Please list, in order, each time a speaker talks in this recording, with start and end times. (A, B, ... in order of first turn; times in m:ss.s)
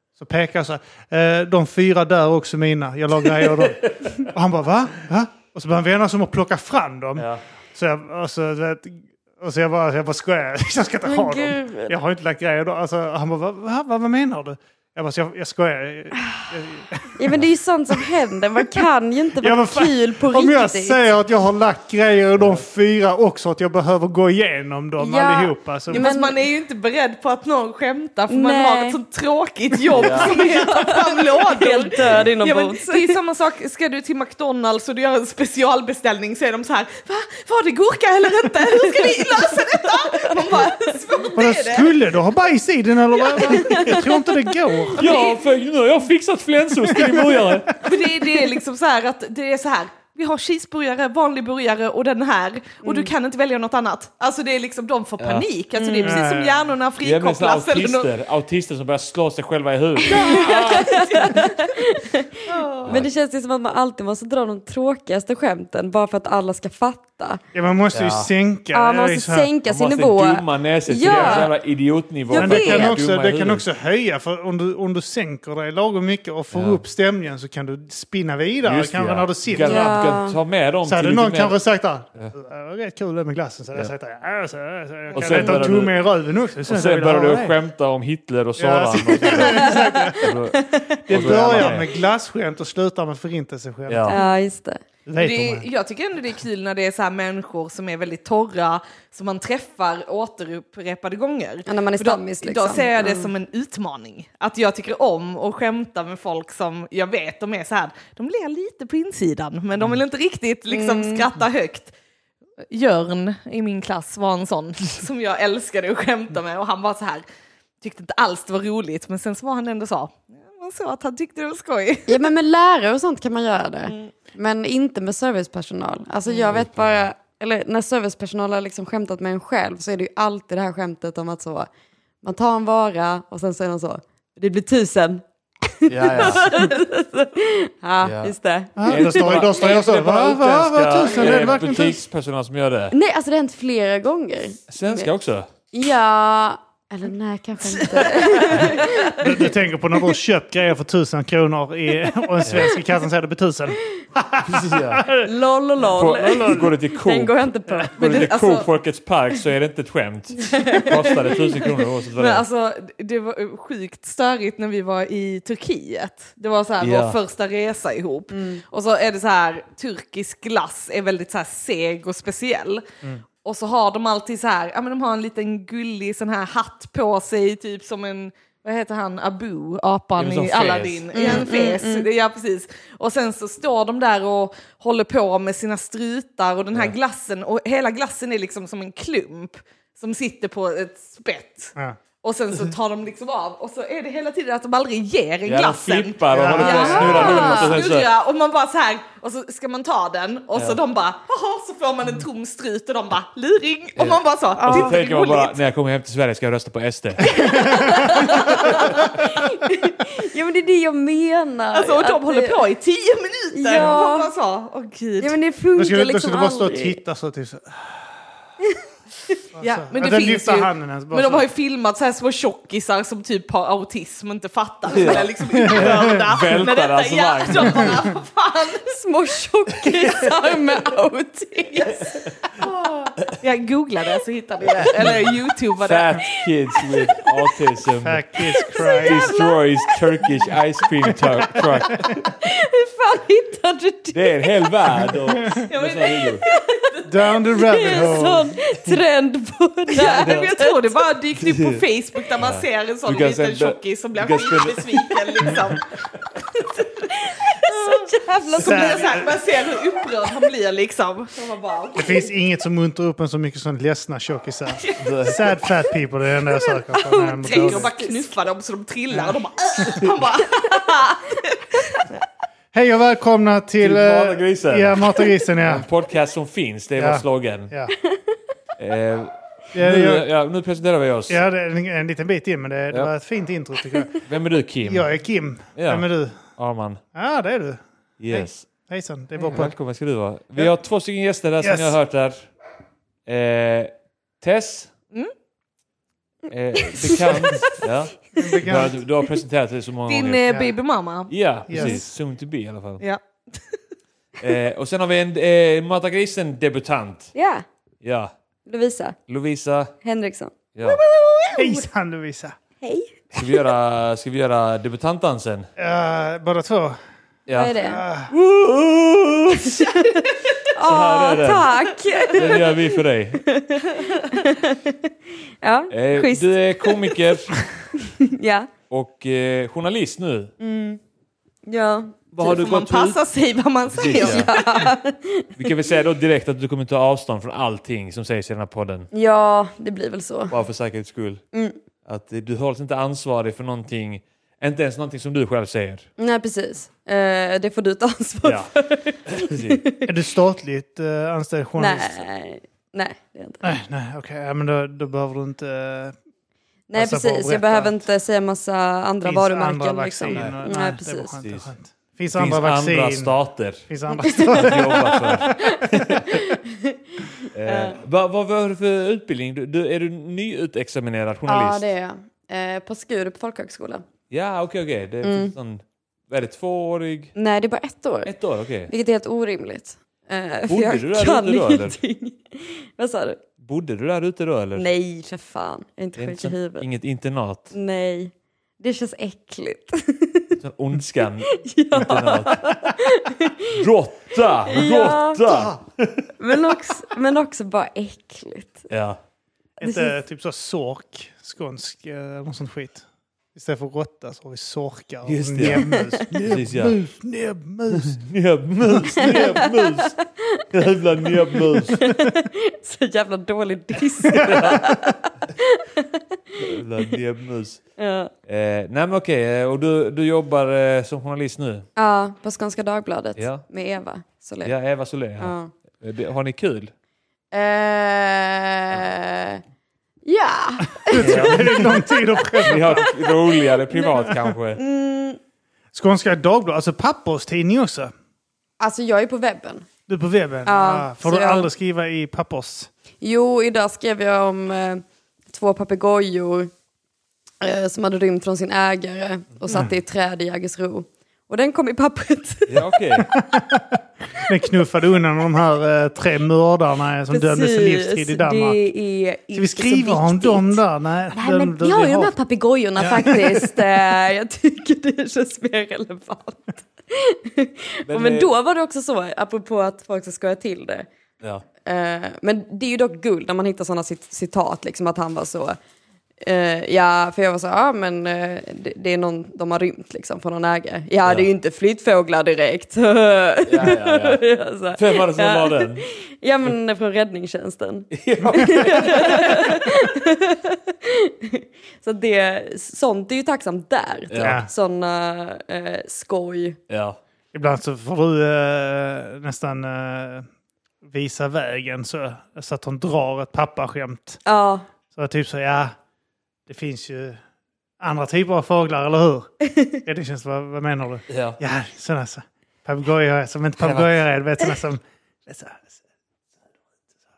0:00.2-0:18.8 A
0:03.6-0:04.3 B
0:07.2-0:07.4 B
0:11.0-0:11.9 C
0:16.2-0:16.5 C
0:17.1-0:21.0 C
0:19.4-0:26.1 A
0:22.4-0:22.6 B
0:25.0-0:26.4 C
0:25.9-0:42.0 D
0:28.3-0:29.0 C
0:29.9-0:33.2 C
0:29.9-0:30.3 B
0:32.0-0:32.3 B
0:39.0-0:40.9 C
0:41.3-0:45.1 A
0:43.3-0:43.7 D
0:43.4-0:44.8 C
0:44.9-0:45.4 D
0:44.9-0:47.9 B
0:46.9-0:47.4 C
0:47.8-0:58.1 D
0:52.8-0:53.1 C
0:55.2-0:55.4 B
0:55.8-0:56.2 C
0:56.0-0:56.7 A
0:57.0-1:01.4 B
1:00.0-1:01.7 D
1:00.1-1:07.4 C
1:02.5-1:03.0 D
1:02.8-1:03.1 B
1:07.5-1:09.5 A
1:07.9-1:08.3 B
1:08.7-1:11.5 C
1:09.6-1:13.6 B
1:11.0-1:11.5 A
1:12.3-1:13.0 C
1:12.3-1:20.2 A
1:16.5-1:16.8 B
1:18.6-1:21.6 B
1:19.6-1:20.4 C
1:20.8-1:27.6 A
1:25.1-1:26.0 B
1:26.6-1:31.9 B
1:28.6-1:30.4 A
1:29.2-1:31.7 C
1:31.1-1:34.2 A
1:33.9-1:34.2 B
1:34.0-1:34.8 C
1:35.0-1:35.6 A
1:35.2-1:51.9 D
1:41.7-1:43.3 C
1:50.7-1:51.3 C
1:52.7-1:57.2 D
1:57.8-2:02.3 D
2:02.1-2:11.7 C
2:06.5-2:07.0 B
2:12.2-2:19.4 C
2:15.9-2:16.6 B
2:18.0-2:18.3 B
2:18.8-2:22.0 A
2:18.8-2:22.9 B
2:21.2-2:22.0 C
2:22.9-2:25.1 C
2:24.7-2:25.5 B
2:25.7-2:29.5 C
2:27.9-2:28.7 D
2:28.6-2:36.7 A
2:32.4-2:32.7 B
2:34.4-2:35.0 B
2:35.2-2:38.0 C
2:35.9-2:42.4 B
2:38.0-2:38.7 D
2:40.4-2:41.7 C
2:42.2-2:52.8 D
2:46.8-2:47.2 B
2:48.3-2:48.6 C
2:53.4-3:25.6 D
3:00.2-3:01.4 B
3:01.1-3:02.1 C
3:15.4-3:18.1 B
3:16.3-3:17.4 A
3:16.6-3:17.8 C
3:24.0-3:27.5 B
3:24.6-3:25.0 C
3:27.2-3:32.6 C
3:27.3-3:29.0 A
3:31.7-3:35.4 D
3:33.5-3:34.3 C
3:35.2-3:37.0 C
3:35.8-3:38.3 A
3:39.5-3:41.4 A
3:39.6-3:48.9 D
3:44.9-3:48.1 B
3:45.5-3:46.2 A
3:48.9-3:52.2 C
3:49.9-3:50.2 B
3:51.7-3:56.2 D
3:54.7-3:55.2 B
3:55.8-3:58.2 B
3:56.7-3:57.5 C
3:58.0-3:59.3 A
3:58.4-4:00.1 C
3:59.0-4:02.2 B
4:01.6-4:04.7 C
4:04.1-4:06.4 B
4:05.5-4:07.2 D
4:06.4-4:06.8 C
4:07.0-4:08.6 A
4:07.5-4:11.0 C
4:09.9-4:15.9 D
4:10.0-4:10.5 B
4:11.4-4:11.8 B
4:12.4-4:15.6 B
4:16.5-4:19.3 C
4:17.6-4:22.2 D
4:18.5-4:19.4 A
4:21.9-4:27.9 A
4:24.7-4:25.3 D
4:25.0-4:25.5 B
4:26.9-4:28.4 C
4:27.4-4:32.0 D
4:29.1-4:30.1 A
4:32.7-4:35.8 A
4:33.8-4:37.7 B
4:37.0-4:37.9 A
4:38.0-4:38.4 C
4:38.8-4:41.4 B
4:39.7-4:40.3 A
4:41.3-4:44.2 A
4:44.2-4:45.1 B
4:44.8-4:46.4 A
4:45.7-4:47.0 B
4:47.1-4:49.7 A
4:48.2-4:48.6 B
4:49.4-4:52.5 B
4:51.6-4:52.0 A
4:53.2-4:54.9 B
4:56.5-5:00.4 B
4:57.1-4:57.4 C
4:58.4-4:59.0 A
5:00.1-5:02.0 D
5:01.3-5:03.0 B
5:01.7-5:02.0 A
5:04.4-5:07.3 B
5:07.3-5:07.6 C
5:08.0-5:08.3 B
5:08.6-5:09.2 C
5:09.3-5:09.9 B
5:10.0-5:10.5 C
5:10.7-5:11.0 B
5:10.9-5:11.7 D
5:11.6-5:12.6 A
5:12.8-5:13.1 C
5:13.3-5:15.7 B
5:15.8-5:17.0 A
5:17.5-5:17.8 B
5:17.5-5:18.0 C
5:17.8-5:18.3 A
5:18.3-5:20.0 B
5:19.6-5:22.8 C
5:20.8-5:21.7 B
5:22.3-5:23.4 B
5:23.4-5:25.1 C
5:25.6-5:27.2 C
5:25.9-5:27.6 B
5:28.0-5:28.7 C
5:28.9-5:30.5 B
5:30.6-5:31.0 C
5:31.6-5:32.2 C
5:32.3-5:33.2 B
5:32.4-5:34.9 D
5:33.9-5:34.5 B
5:34.1-5:35.7 C
5:35.6-5:39.1 B
5:39.1-5:40.5 C
5:40.5-5:41.4 B
5:41.5-5:41.8 C
5:42.0-5:46.1 B
5:46.2-5:50.1 C
5:48.4-5:48.7 B
5:49.2-5:49.8 B
5:50.0-5:52.2 A
5:51.8-5:53.6 C
5:53.6-5:56.1 A
5:56.9-6:01.4 C
5:56.9-5:58.0 A
5:59.2-6:03.4 A
6:00.3-6:00.6 B
6:01.4-6:01.7 B
6:02.3-6:03.8 B
6:03.9-6:06.3 A
6:04.2-6:08.0 C
6:04.4-6:06.5 B
6:07.5-6:11.9 B
6:11.5-6:14.0 C
6:14.3-6:17.3 B
6:15.2-6:15.5 C
6:17.3-6:18.3 C
6:18.2-6:18.9 B
6:18.9-6:23.4 C
6:20.7-6:22.0 B
6:23.6-6:24.9 B
6:24.8-6:26.8 C
6:26.2-6:27.7 B
6:27.7-6:30.6 C
6:30.6-6:32.7 B
6:31.5-6:33.7 C
6:33.7-6:36.3 B
6:34.6-6:35.4 C
6:35.4-6:35.8 A
6:36.4-6:38.9 C
6:38.9-6:39.2 B
6:39.8-6:40.1 C
6:39.8-6:48.2 A
6:45.2-6:47.0 B
6:45.6-6:46.2 C
6:47.9-6:52.0 B
6:48.8-6:49.3 A
6:49.2-6:50.6 C
6:51.9-6:56.2 C
6:54.3-6:54.8 A
6:54.4-6:54.8 B
6:56.6-6:57.8 B
6:58.0-6:58.3 C
6:58.4-7:01.8 B
7:02.0-7:04.7 C
7:03.4-7:03.6 B
7:04.6-7:06.9 B
7:05.4-7:05.7 C
7:07.5-7:09.6 C
7:10.2-7:15.4 C
7:11.0-7:13.1 A
7:11.2-7:11.9 B
7:12.6-7:14.8 B
7:15.9-7:18.1 A
7:18.8-7:19.9 C
7:20.1-7:22.9 A
7:20.6-7:21.7 C
7:23.2-7:26.7 C
7:27.6-7:32.9 C
7:29.7-7:29.9 A
7:32.7-7:33.3 B
7:33.2-7:38.8 A
7:37.3-7:40.8 C
7:39.5-7:42.3 A
7:41.3-7:51.1 C
7:43.0-7:43.8 A
7:48.0-7:48.5 B
7:51.8-7:55.8 C
7:56.4-8:16.8 C
8:03.6-8:04.4 B
8:04.9-8:06.0 B
8:08.1-8:09.7 B
8:14.3-8:14.6 B
8:14.4-8:14.7 A
8:16.9-8:17.2 B
8:17.5-8:20.4 A
8:21.0-8:24.4 A
8:24.4-8:24.8 C
8:25.1-8:25.9 A
8:26.7-8:27.4 A
8:28.0-8:35.9 A
8:29.6-8:30.0 C
8:31.3-8:31.6 B
8:33.8-8:34.1 B